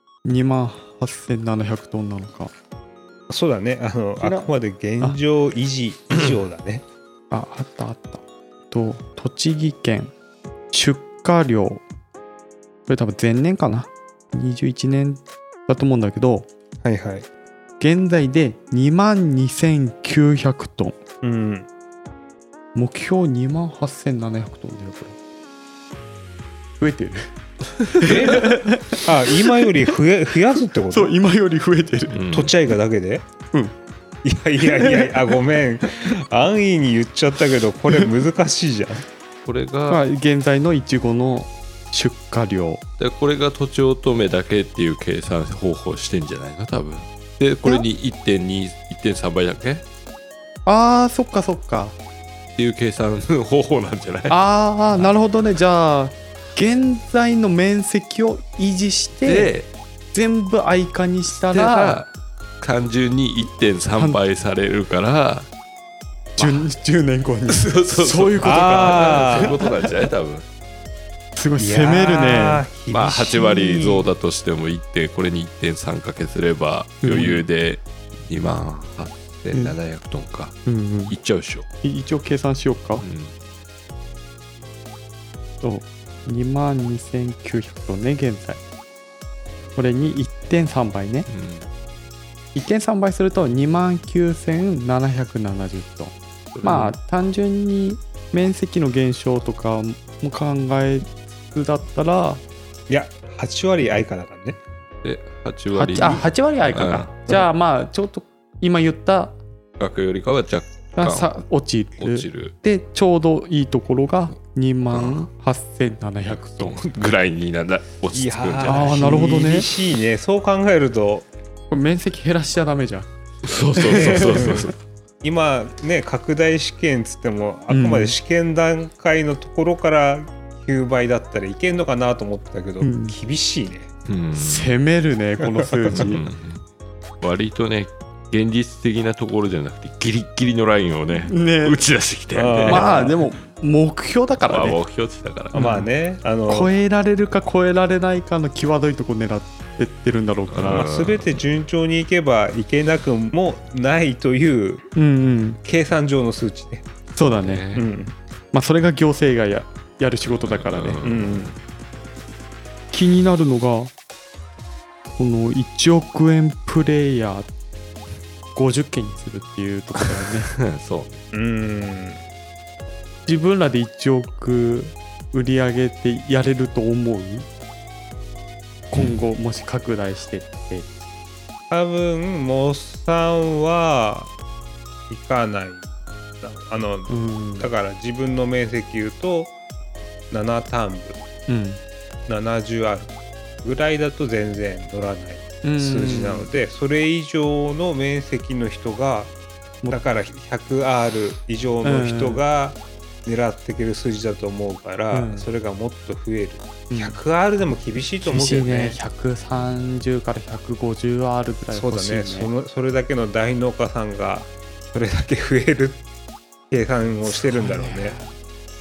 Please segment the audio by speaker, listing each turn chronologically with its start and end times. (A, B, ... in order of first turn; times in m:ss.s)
0:00.2-0:02.5 A
0:03.3-0:06.8 B
0:04.2-0:04.5 A
0:07.3-0:10.1 A
0:10.7-0:11.8 A
0:12.9-0:16.5 A
0:16.8-0:17.3 B
0:17.8-0:21.0 A
0:21.2-0:21.7 B
0:22.8-0:25.2 A
0:26.8-0:27.3 A
0:27.8-0:28.5 C
0:27.9-0:29.7 A
0:28.0-0:31.1 B
0:30.9-0:32.2 A
0:32.1-0:32.6 C
0:32.3-0:33.2 B
0:34.2-0:39.0 B
0:34.6-0:35.1 A
0:39.4-0:40.0 C
0:39.9-0:42.8 A
0:43.0-0:49.8 C
0:50.7-0:52.0 A
0:52.6-0:54.4 C
0:54.3-0:59.5 A
0:59.2-0:59.7 C
1:00.1-1:02.0 A
1:01.4-1:02.1 C
1:02.6-1:05.5 C
1:06.4-1:09.9 A
1:06.4-1:06.7 C
1:07.5-1:10.5 C
1:08.4-1:09.6 B
1:11.4-1:12.6 A
1:11.6-1:14.1 B
1:12.9-1:20.6 C
1:17.0-1:17.4 A
1:20.7-1:21.2 A
1:21.1-1:21.7 C
1:21.8-1:23.0 A
1:23.0-1:23.4 C
1:25.6-1:28.6 A
1:29.8-1:31.3 A
1:31.3-1:31.7 C
1:32.6-1:42.4 A
1:36.5-1:37.0 C
1:42.9-1:44.6 B
1:45.0-1:47.4 C
1:45.7-1:49.4 A
1:49.8-1:51.3 C
1:51.0-1:56.8 A
1:52.0-1:52.5 C
1:54.9-1:55.3 C
1:56.3-1:59.2 C
1:58.1-2:01.3 B
1:58.6-1:59.7 A
2:01.7-2:03.1 A
2:03.4-2:04.7 C
2:03.7-2:04.7 A
2:03.9-2:04.7 B
2:05.2-2:13.9 B
2:07.7-2:08.2 A
2:12.8-2:13.2 A
2:14.1-2:14.7 C
2:14.4-2:16.2 A
2:15.4-2:16.1 B
2:15.9-2:16.6 C
2:17.2-2:23.0 C
2:21.3-2:21.8 A
2:22.3-2:23.2 B
2:22.7-2:24.8 A
2:24.4-2:25.7 C
2:25.5-2:25.9 A
2:25.5-2:26.7 B
2:26.5-2:30.9 A
2:30.5-2:31.4 C
2:30.7-2:34.9 B
2:35.0-2:35.6 A
2:35.6-2:36.9 B
2:37.2-2:37.7 A
2:37.2-2:37.9 C
2:37.8-2:38.1 B
2:38.5-2:41.0 A
2:40.3-2:41.6 C
2:41.0-2:41.5 B
2:42.9-2:43.9 A
2:45.2-2:47.5 A
2:48.6-2:50.5 A
2:50.2-2:51.2 C
2:51.3-2:52.2 B
2:53.3-2:57.5 A
2:58.9-3:00.9 A
3:01.7-3:04.3 B
3:05.1-3:05.9 B
3:06.4-3:09.5 B
3:07.1-3:07.7 A
3:10.3-3:11.2 B
3:11.5-3:11.8 A
3:12.3-3:19.3 B
3:15.6-3:16.5 A
3:19.9-3:29.0 B
3:21.8-3:22.4 A
3:25.1-3:25.5 A
3:26.9-3:27.2 A
3:28.2-3:32.5 A
3:31.7-3:36.0 B
3:36.7-3:38.2 B
3:37.2-3:38.3 A